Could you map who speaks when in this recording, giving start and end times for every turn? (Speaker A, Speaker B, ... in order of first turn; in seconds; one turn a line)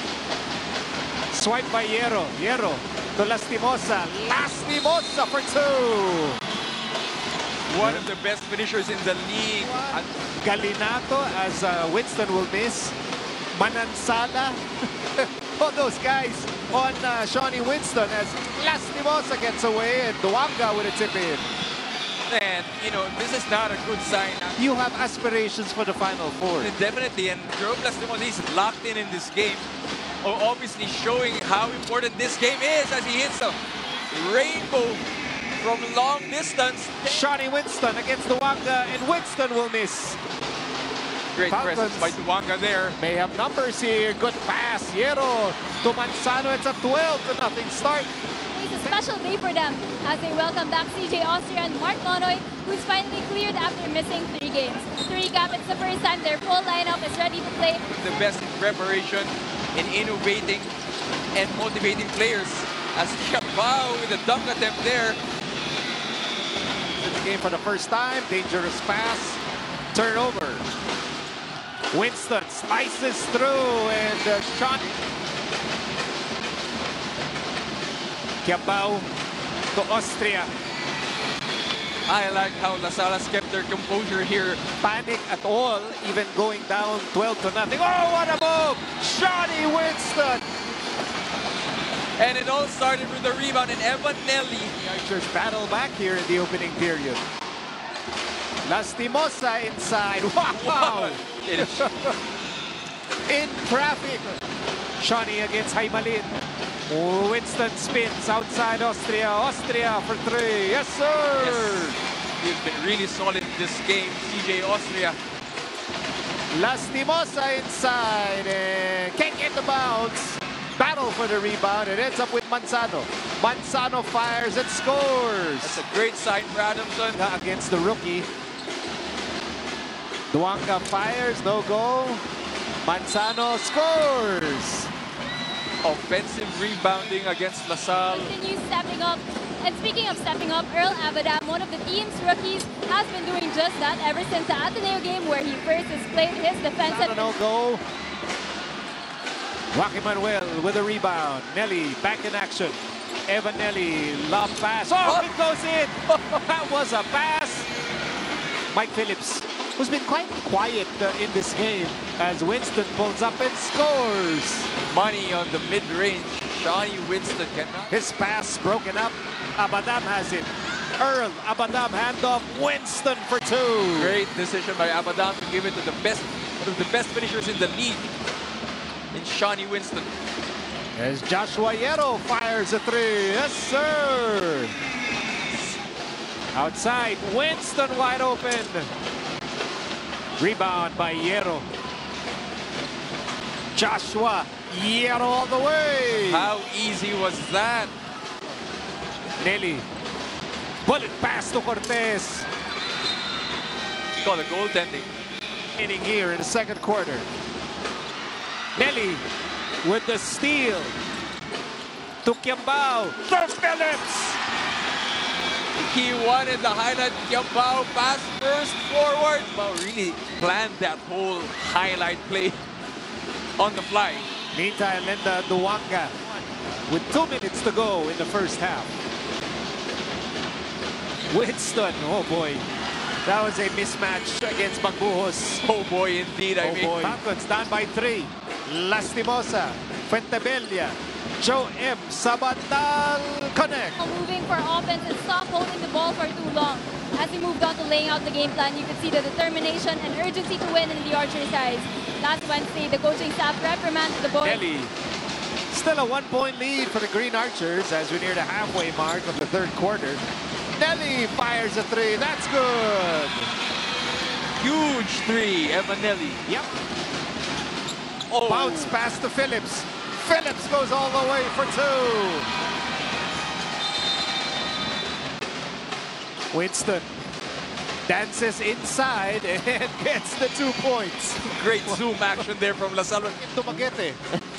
Speaker A: 1.3-6.4
Speaker B: 7.7-10.1
Speaker A: 7.8-8.1
Speaker A: 9.6-13.0
Speaker A: 13.5-14.6
Speaker A: 15.2-21.5
Speaker B: 22.3-24.6
Speaker A: 24.6-26.7
Speaker B: 26.6-29.7
Speaker B: 30.2-33.6
Speaker B: 34.1-35.0
Speaker B: 35.6-37.3
Speaker A: 37.0-40.2
Speaker B: 41.3-43.0
Speaker A: 41.5-42.2
Speaker A: 43.0-48.1
Speaker C: 48.5-57.8
Speaker B: 57.8-60.7
Speaker B: 61.3-65.2
Speaker A: 67.0-69.4
Speaker A: 69.9-70.7
Speaker A: 71.9-75.0
Speaker A: 78.4-79.1
Speaker A: 79.7-80.5
Speaker B: 82.1-84.6
Speaker A: 84.8-90.5
Speaker B: 92.2-94.8
Speaker A: 94.8-97.2
Speaker A: 98.7-102.2
Speaker B: 100.5-101.9
Speaker A: 103.3-104.4
Speaker A: 105.0-106.4
Speaker A: 106.9-112.0
Speaker B: 111.4-115.2
Speaker A: 116.5-125.8
Speaker B: 125.6-127.2
Speaker A: 127.1-128.3
Speaker A: 130.3-132.2
Speaker A: 132.8-134.9
Speaker B: 135.8-138.3
Speaker C: 138.1-147.3
Speaker A: 146.8-147.8
Speaker A: 149.7-157.7
Speaker B: 155.0-155.3
Speaker B: 156.1-156.4
Speaker A: 158.7-164.7
Speaker B: 164.9-167.9
Speaker A: 167.9-174.2
Speaker B: 173.9-178.1
Speaker B: 179.1-180.1
Speaker A: 181.0-184.7
Speaker A: 186.5-188.9
Speaker A: 190.4-191.7
Speaker A: 193.8-196.5
Speaker B: 196.1-197.9
Speaker A: 199.4-199.9
Speaker A: 200.8-202.5
Speaker B: 204.2-205.1
Speaker A: 205.8-207.3
Speaker A: 208.8-209.2
Speaker A: 209.8-211.0
Speaker A: 212.2-214.4
Speaker B: 215.8-222.6
Speaker B: 223.6-224.3
Speaker A: 224.5-226.2
Speaker A: 226.9-228.9
Speaker A: 231.3-232.7
Speaker A: 233.2-235.6
Speaker B: 235.6-237.2
Speaker A: 236.6-244.0
Speaker C: 244.0-254.6
Speaker A: 254.4-254.9
Speaker A: 255.7-263.5
Speaker B: 264.6-266.4
Speaker B: 268.3-268.9
Speaker A: 268.4-272.5
Speaker A: 276.5-277.1
Speaker A: 278.1-282.0
Speaker B: 281.5-283.9
Speaker A: 283.4-284.2